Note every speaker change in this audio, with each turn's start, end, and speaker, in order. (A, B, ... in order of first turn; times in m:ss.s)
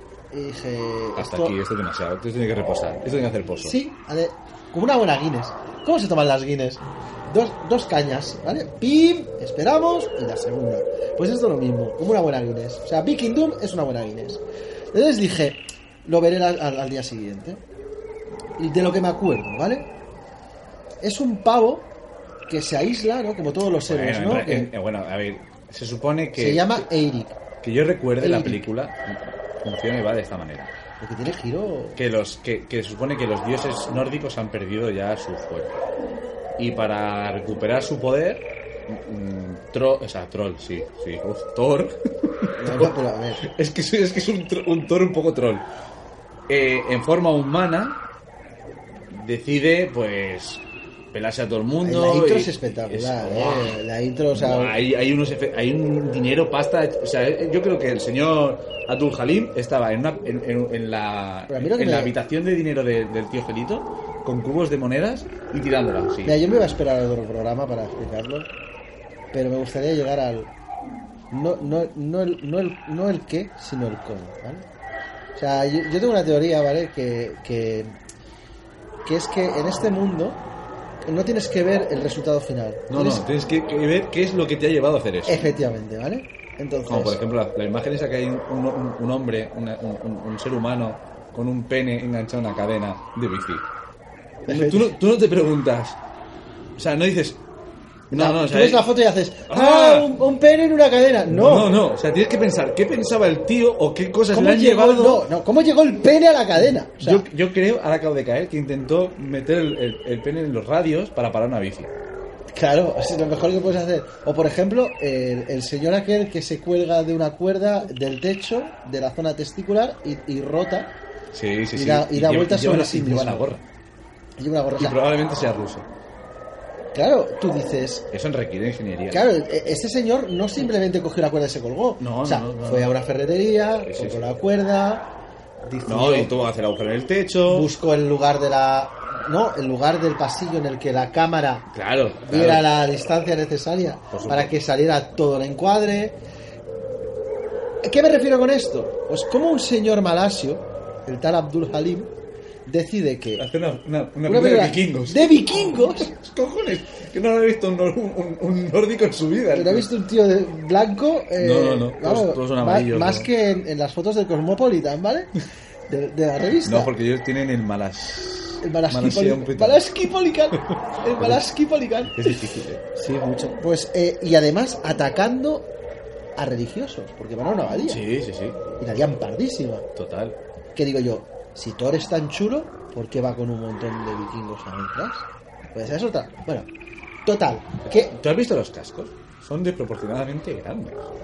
0:00.3-0:01.6 A
0:01.2-0:03.8 B
0:03.6-0:14.4 A
0:14.9-0:17.6 A
0:18.6-0:19.9 A
0:21.0-0:21.9 A
0:22.5-0:24.7 A
0:23.8-0:26.9 B
0:26.4-0:27.4 A
0:27.6-0:30.7 B
0:28.2-0:28.6 A
0:31.0-0:32.0 A
0:32.0-0:35.8 B
0:36.6-0:45.7 B
0:42.6-0:43.4 A
0:46.5-0:48.0 B
0:49.1-0:53.8 B
0:51.8-0:54.8 A
0:54.3-1:06.4 B
1:01.5-1:02.2 A
1:06.2-1:08.5 A
1:09.3-1:10.5 A
1:11.3-1:14.7 A
1:15.4-1:18.0 A
1:19.0-1:20.4 A
1:21.0-1:23.2 A
1:22.9-1:25.5 B
1:25.3-1:27.2 A
1:26.9-1:33.7 B
1:34.5-1:34.9 A
1:34.5-1:36.0 B
1:36.8-1:37.4 B
1:38.1-1:38.9 B
1:38.1-1:41.8 A
1:39.5-1:40.1 B
1:41.3-1:45.3 B
1:44.3-1:47.2 A
1:46.9-1:51.9 B
1:52.5-2:00.9 A
2:01.3-2:03.6 B
2:01.7-2:03.5 A
2:04.4-2:05.0 A
2:04.8-2:05.9 B
2:06.9-2:08.1 A
2:08.1-2:09.3 B
2:09.1-2:15.1 A
2:12.0-2:12.9 B
2:13.9-2:14.2 B
2:15.6-2:16.3 A
2:15.8-2:17.7 B
2:17.5-2:21.7 A
2:21.7-2:22.7 B
2:22.2-2:26.2 A
2:24.1-2:24.6 B
2:27.8-2:32.1 A
2:32.7-2:33.5 A
2:33.4-2:39.9 B
2:34.3-2:36.1 A
2:39.5-2:45.3 A
2:41.4-2:43.3 B
2:45.9-2:46.9 A
2:46.6-2:49.9 B
2:48.6-2:52.4 A
2:50.5-2:51.4 B
2:52.1-2:52.9 B
2:53.0-2:55.7 A
2:56.4-2:58.0 A
2:57.9-2:58.6 B
2:58.8-2:59.9 A
3:00.0-3:00.4 B
3:00.8-3:06.7 A
3:07.3-3:08.1 A
3:07.9-3:11.1 B